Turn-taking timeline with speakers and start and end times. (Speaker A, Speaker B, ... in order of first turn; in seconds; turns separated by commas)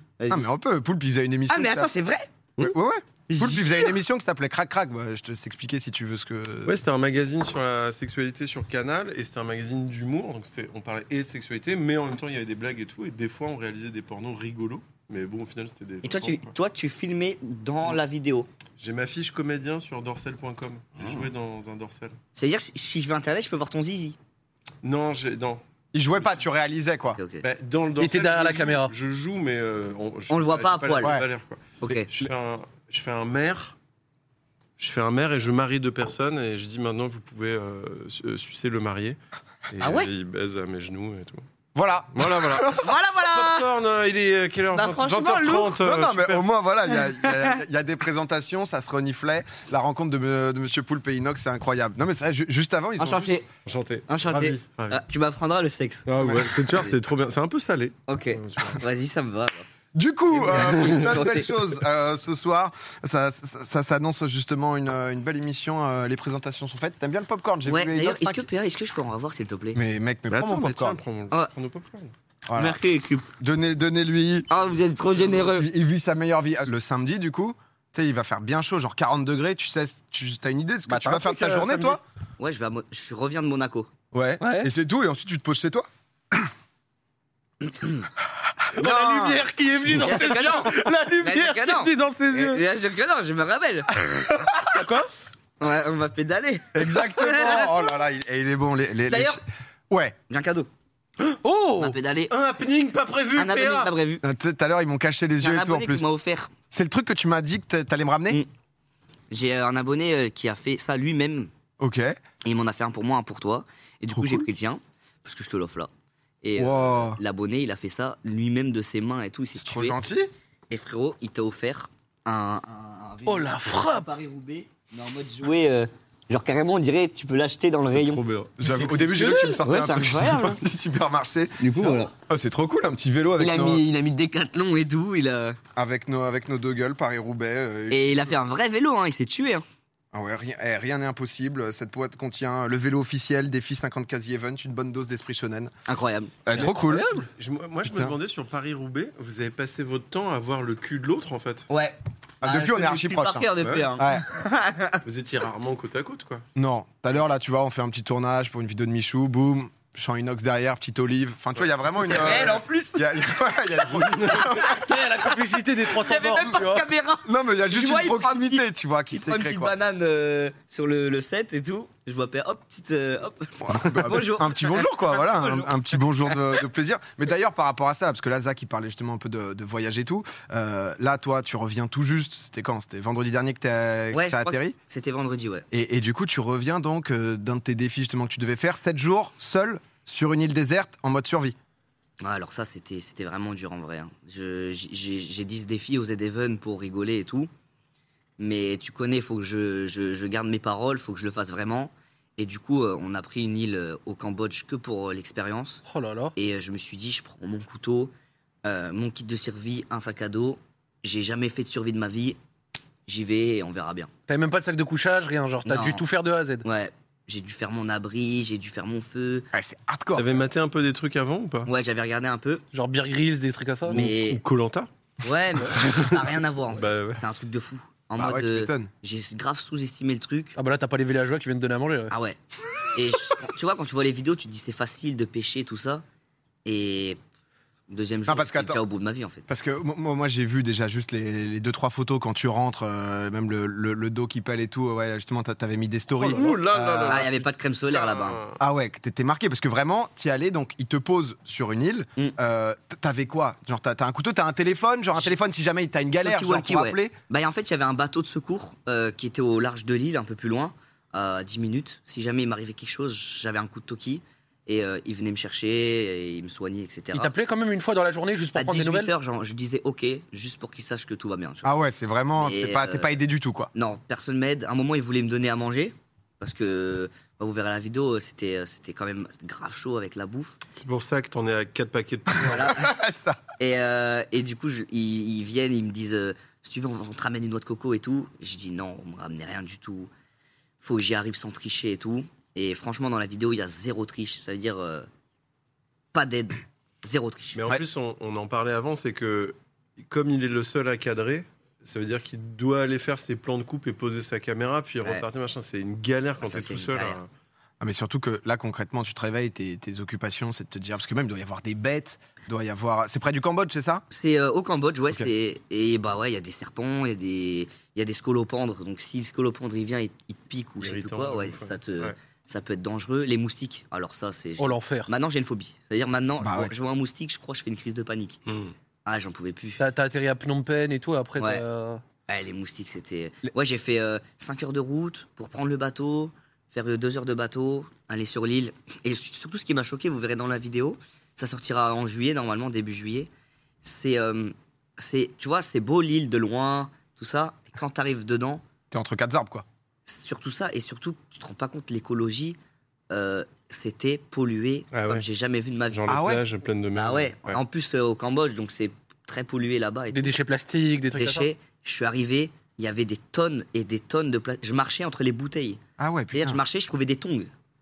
Speaker A: 0.2-0.5, Speaker B: 0.3-1.9, Speaker A: 1.5-2.3, Speaker B: 2.6-6.8, Speaker A: 3.3-3.9, Speaker C: 6.7-16.5, Speaker A: 16.0-18.5, Speaker C: 18.8-22.1, Speaker A: 22.3-24.2, Speaker C: 24.8-25.6, Speaker B: 25.9-27.2, Speaker A: 27.1-27.4, Speaker C: 27.4-33.8, Speaker D: 28.0-28.9, Speaker A: 30.3-31.2, Speaker B: 31.0-31.3, Speaker A: 31.8-32.1, Speaker C: 34.8-39.2, Speaker C: 39.7-41.4, Speaker A: 39.8-40.1, Speaker B: 41.7-42.9, Speaker C: 42.1-46.4, Speaker A: 42.8-43.6, Speaker A: 44.7-45.8, Speaker B: 45.8-53.4, Speaker A: 47.1-47.6, Speaker A: 53.0-53.5, Speaker C: 53.6-55.0, Speaker A: 54.1-56.1, Speaker C: 56.0-58.8, Speaker A: 56.7-56.9, Speaker A: 58.1-59.6, Speaker B: 59.9-68.5, Speaker A: 60.4-61.5, Speaker C: 60.5-61.0, Speaker A: 67.7-69.8, Speaker B: 69.7-71.0, Speaker C: 70.3-72.1, Speaker B: 72.5-72.8, Speaker A: 72.5-73.3, Speaker B: 73.4-74.5, Speaker A: 74.5-75.7, Speaker B: 75.3-82.0, Speaker D: 80.9-82.0, Speaker A: 82.4-83.9, Speaker B: 84.1-86.5, Speaker D: 84.4-84.7, Speaker A: 87.6-88.1, Speaker D: 88.7-92.6, Speaker A: 88.8-89.4, Speaker A: 89.9-94.3, Speaker D: 94.6-95.1, Speaker A: 95.6-97.8, Speaker B: 96.7-100.2, Speaker A: 99.1-99.4, Speaker A: 100.3-100.7, Speaker D: 101.2-102.0, Speaker A: 101.8-102.3, Speaker C: 102.3-103.9, Speaker A: 103.3-104.2, Speaker B: 104.2-106.0, Speaker A: 105.4-106.5, Speaker B: 106.7-108.4, Speaker A: 109.3-111.5, Speaker B: 111.8-112.2, Speaker A: 112.4-115.9, Speaker B: 114.1-114.5, Speaker A: 116.4-120.0, Speaker B: 116.6-117.2, Speaker B: 119.6-120.3, Speaker A: 120.7-128.2, Speaker D: 123.3-124.1, Speaker C: 127.9-128.7, Speaker B: 128.6-133.8, Speaker D: 128.9-129.6, Speaker A: 129.1-130.6, Speaker A: 131.6-132.1, Speaker A: 133.4-135.6, Speaker B: 135.8-138.3, Speaker A: 137.9-139.6, Speaker B: 140.1-145.7, Speaker A: 145.9-146.4, Speaker B: 146.4-147.1, Speaker D: 146.5-147.3, Speaker C: 147.3-151.7, Speaker B: 147.8-148.2, Speaker A: 151.7-155.0, Speaker B: 152.4-154.3, Speaker C: 153.6-153.9, Speaker C: 155.0-156.4, Speaker B: 156.5-164.8, Speaker A: 161.9-164.9, Speaker C: 162.1-162.5, Speaker D: 164.4-166.8, Speaker A: 165.8-175.7, Speaker B: 167.2-169.7, Speaker B: 173.6-184.7, Speaker A: 176.3-176.6, Speaker A: 184.1-185.7, Speaker B: 185.7-191.6, Speaker A: 192.2-197.5, Speaker A: 198.4-205.8, Speaker D: 205.8-206.3, Speaker A: 206.3-208.1, Speaker A: 208.6-212.4, Speaker A: 213.1-214.1, Speaker D: 214.3-216.7, Speaker A: 215.6-216.0, Speaker A: 216.6-219.5, Speaker B: 219.5-220.4, Speaker C: 220.2-221.7, Speaker A: 221.7-222.6, Speaker D: 222.7-224.0, Speaker A: 223.9-224.4, Speaker C: 223.9-224.9, Speaker A: 225.2-230.5, Speaker C: 225.7-226.2, Speaker C: 226.7-227.2, Speaker B: 228.2-228.9, Speaker D: 230.6-232.1, Speaker A: 232.1-232.4, Speaker A: 232.9-236.0, Speaker A: 236.6-237.2, Speaker A: 237.9-239.4, Speaker B: 238.3-238.8, Speaker B: 239.5-247.3, Speaker C: 246.1-248.6, Speaker A: 246.3-248.4, Speaker B: 248.6-257.1, Speaker A: 256.2-267.3, Speaker D: 267.1-269.1, Speaker A: 268.5-271.7, Speaker B: 271.6-273.7, Speaker A: 272.4-273.1, Speaker A: 273.7-280.6, Speaker C: 280.7-282.8, Speaker A: 282.4-282.9, Speaker B: 282.4-283.4, Speaker A: 283.6-290.1, Speaker A: 290.8-295.1, Speaker A: 296.1-297.6, Speaker C: 297.5-307.3, Speaker A: 306.4-307.2, Speaker B: 307.8-314.0, Speaker A: 314.1-328.4, Speaker C: 320.8-322.1, Speaker D: 324.6-325.1, Speaker B: 326.4-326.7, Speaker C: 328.5-328.7, Speaker A: 329.1-329.8, Speaker D: 329.8-332.0, Speaker A: 331.4-331.6, Speaker A: 332.3-343.3, Speaker A: 343.8-348.6, Speaker B: 348.9-349.6, Speaker A: 350.1-352.6, Speaker A: 353.1-356.1, Speaker C: 354.9-355.2, Speaker C: 355.9-357.6, Speaker B: 356.1-356.4, Speaker A: 356.9-360.3, Speaker D: 360.1-361.5, Speaker A: 361.1-367.5, Speaker B: 366.0-366.6